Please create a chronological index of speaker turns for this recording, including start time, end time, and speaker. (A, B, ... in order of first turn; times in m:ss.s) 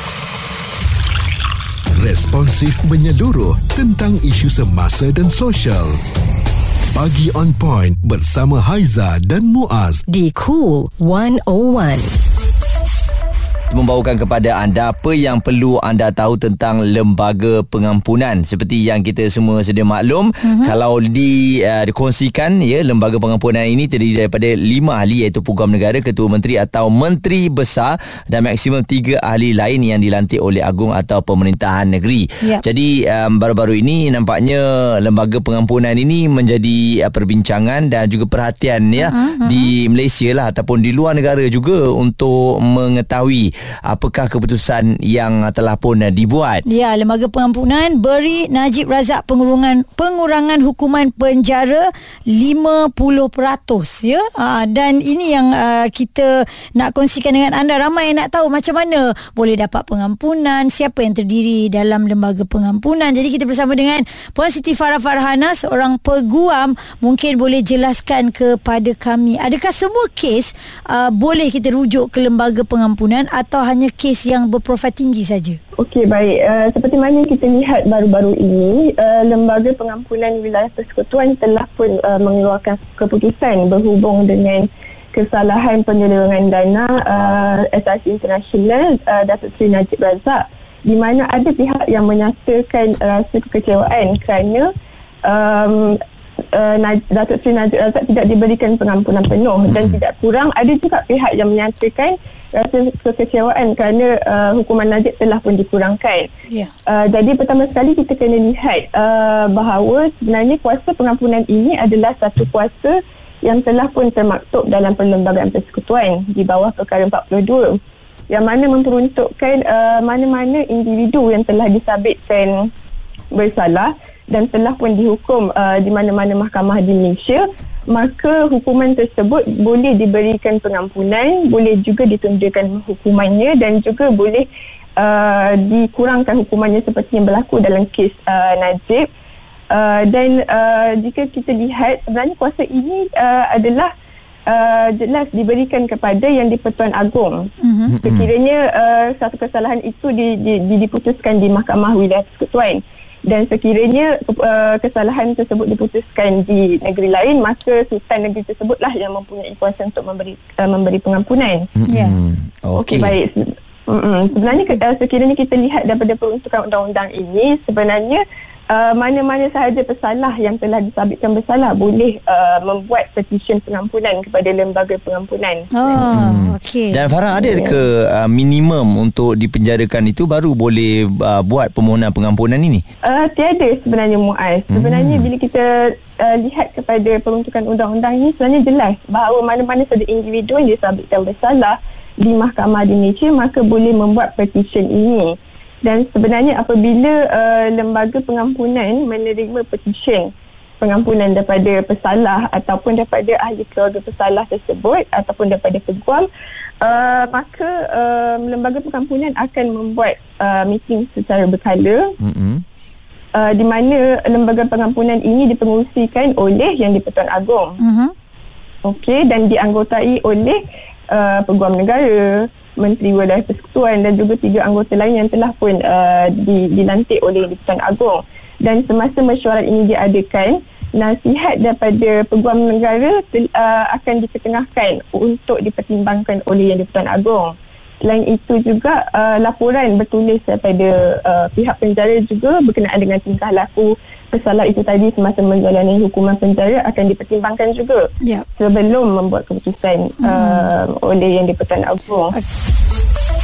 0:02.0-0:06.0 A
0:06.9-0:10.0 A
0:10.1-0:12.2 B
0:13.7-0:46.6 C
0:20.4-0:20.7 D
0:39.0-0:39.7 D
0:46.7-1:15.6 D
1:15.8-1:34.7 E
1:35.2-1:36.0 E
1:36.5-1:46.3 E
1:39.7-1:40.0 C
1:46.9-1:57.8 E
1:58.3-2:02.7 E
2:03.3-2:19.1 E
2:19.7-2:23.9 E
2:24.5-2:27.5 E
2:27.6-2:28.0 D
2:27.9-2:28.3 C
2:28.0-2:41.7 E
2:41.8-2:43.2 C
2:41.9-2:42.2 D
2:42.8-2:56.1 E
2:55.7-2:57.0 D
2:56.1-3:02.8 C
2:57.3-2:57.8 E
3:03.0-3:20.3 E
3:04.7-3:05.3 C
3:20.8-3:26.3 E
3:26.8-3:32.1 E
3:32.2-3:32.6 C
3:33.4-3:37.8 E
3:37.8-3:38.1 D
3:38.8-4:08.0 E
4:08.6-4:12.4 E
4:10.2-4:10.7 D